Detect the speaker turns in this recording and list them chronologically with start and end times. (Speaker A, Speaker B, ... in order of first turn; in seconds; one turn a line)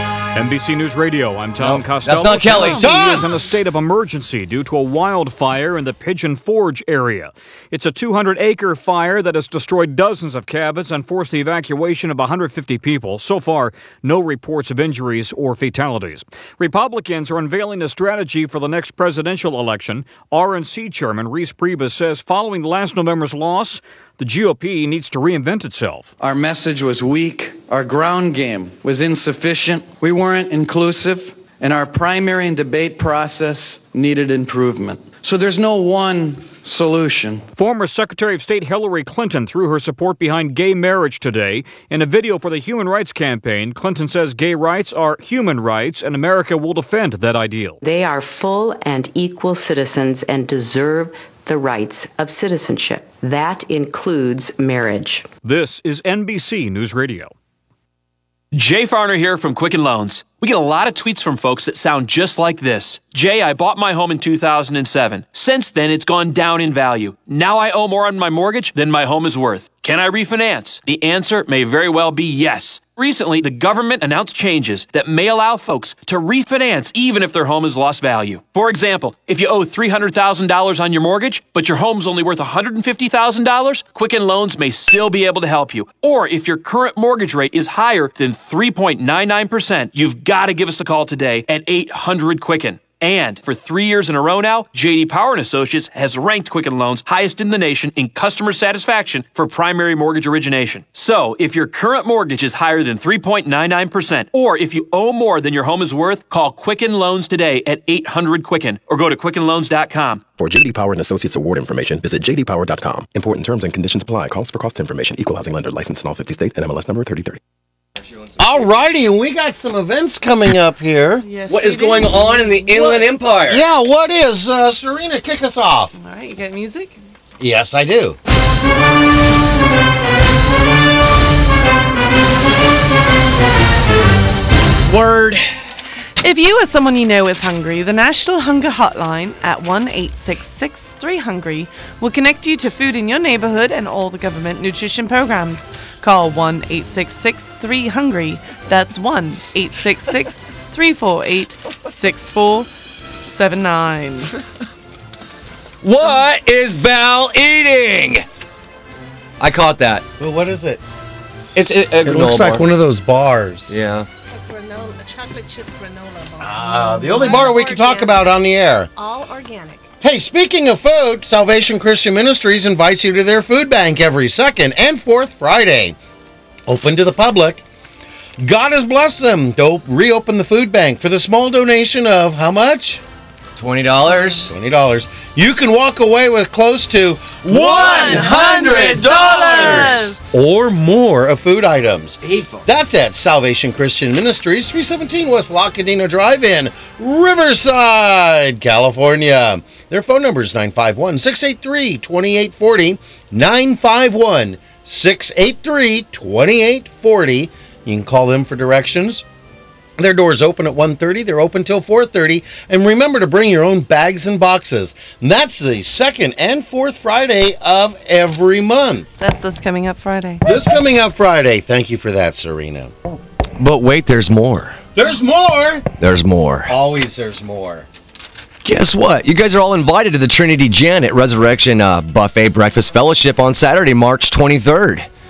Speaker A: 0.3-26.1
Speaker B: 1.6-2.9
Speaker C: 2.5-2.9
Speaker D: 2.8-3.3
Speaker E: 26.2-37.5
Speaker A: 37.6-47.8
Speaker F: 47.8-55.3
Speaker A: 55.4-57.3
Speaker G: 58.5-110.2
Speaker H: 110.4-117.4
Speaker B: 118.2-118.7
Speaker D: 118.4-121.2
Speaker C: 121.2-123.1
Speaker B: 121.5-123.6
Speaker D: 123.5-125.9
Speaker C: 125.9-127.0
Speaker D: 127.4-128.2
Speaker B: 134.9-135.5
Speaker C: 136.2-154.3
Speaker B: 155.8-158.2
Speaker B: 159.4-160.1
Speaker D: 160.2-160.8
Speaker B: 161.6-162.7
Speaker D: 162.0-163.8
Speaker B: 163.7-164.1
Speaker I: 164.3-168.3
Speaker D: 166.4-168.9
Speaker I: 168.9-169.9
Speaker D: 170.0-176.0
Speaker D: 176.7-177.6
Speaker D: 178.4-183.0
Speaker B: 183.6-184.5
Speaker D: 184.2-209.2
Speaker B: 187.5-189.9
Speaker C: 187.7-190.2
Speaker B: 192.2-192.7
Speaker D: 210.0-219.1
Speaker C: 219.2-220.4
Speaker D: 220.4-222.9
Speaker B: 223.6-224.8
Speaker D: 224.9-225.9
Speaker B: 226.0-226.8
Speaker D: 226.7-227.9
Speaker B: 228.7-235.1